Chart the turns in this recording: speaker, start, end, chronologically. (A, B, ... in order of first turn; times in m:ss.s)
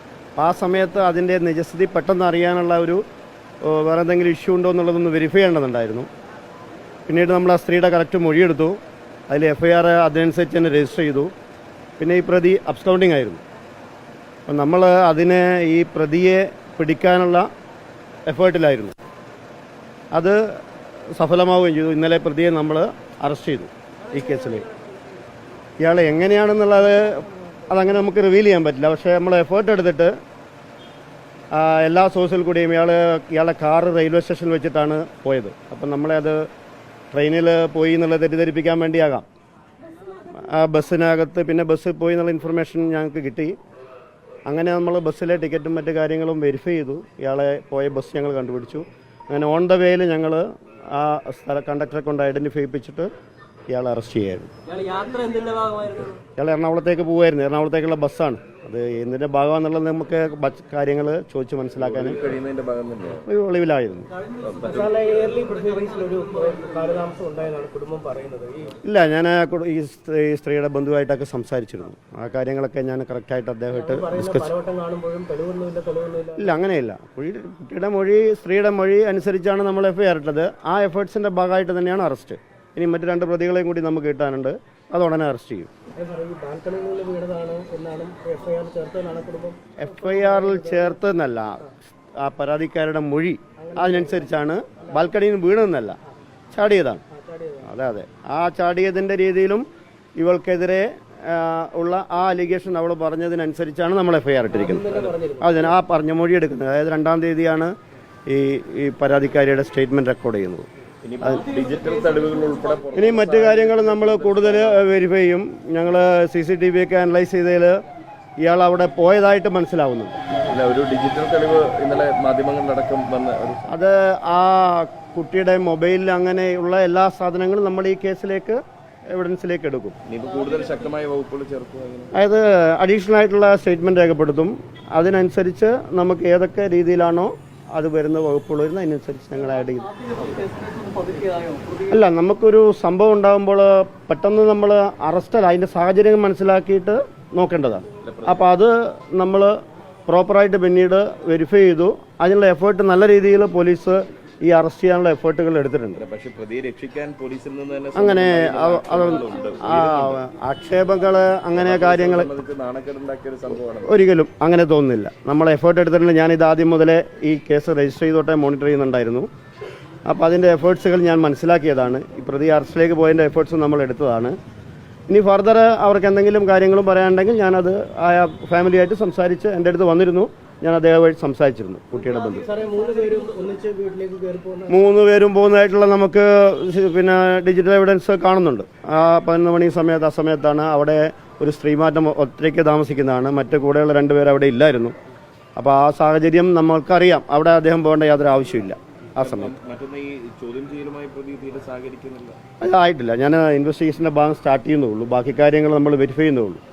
0:00.4-0:03.0 A
0:03.6-0:06.1 A
0:07.1-0:08.8 A
0:09.3-0:11.3 A
0:12.0-0:13.4 A
0:14.5-0:17.5 A
0:18.3-0:18.9 A
0:20.1-0:20.6 A
0:21.1-0:24.7 A
0:25.8-0:30.1 A
0:31.5-0:36.4 A
0:37.1-0:39.3 A
0:40.3-0:43.6 A
0:44.5-0:53.1 A
0:53.7-0:54.5 A
0:54.7-0:56.1 B
0:56.4-1:02.3 A
1:01.8-1:03.3 C
1:03.3-1:04.1 A
1:04.4-1:04.9 C
1:04.6-1:08.8 B
1:08.8-1:14.5 A
1:13.7-1:16.6 B
1:16.4-1:25.7 A
1:25.9-1:31.0 B
1:29.8-1:36.0 A
1:33.6-1:34.4 B
1:36.5-1:37.0 A
1:37.1-1:37.7 B
1:37.6-1:39.7 A
1:40.2-1:47.7 A
1:44.5-1:45.8 B
1:44.9-1:45.2 C
1:48.3-1:50.7 A
1:51.0-1:54.9 C
1:51.2-1:51.5 A
1:53.0-1:57.8 A
1:58.4-2:00.2 A
2:00.4-2:03.6 C
2:03.7-2:08.6 A
2:09.1-2:10.0 A
2:10.1-2:12.1 C
2:12.1-2:19.9 A
2:20.2-2:21.9 B
2:21.9-2:29.6 A
2:28.0-2:28.5 C
2:30.1-2:36.0 A
2:36.0-2:40.2 C
2:38.0-2:42.3 A
2:41.6-2:43.9 C
2:43.8-2:49.3 A
2:50.1-2:54.4 A
2:55.1-3:02.5 A
3:02.4-3:04.8 B
3:04.7-3:15.0 A
3:15.6-3:19.5 A
3:19.2-3:22.4 C
3:22.6-3:26.6 A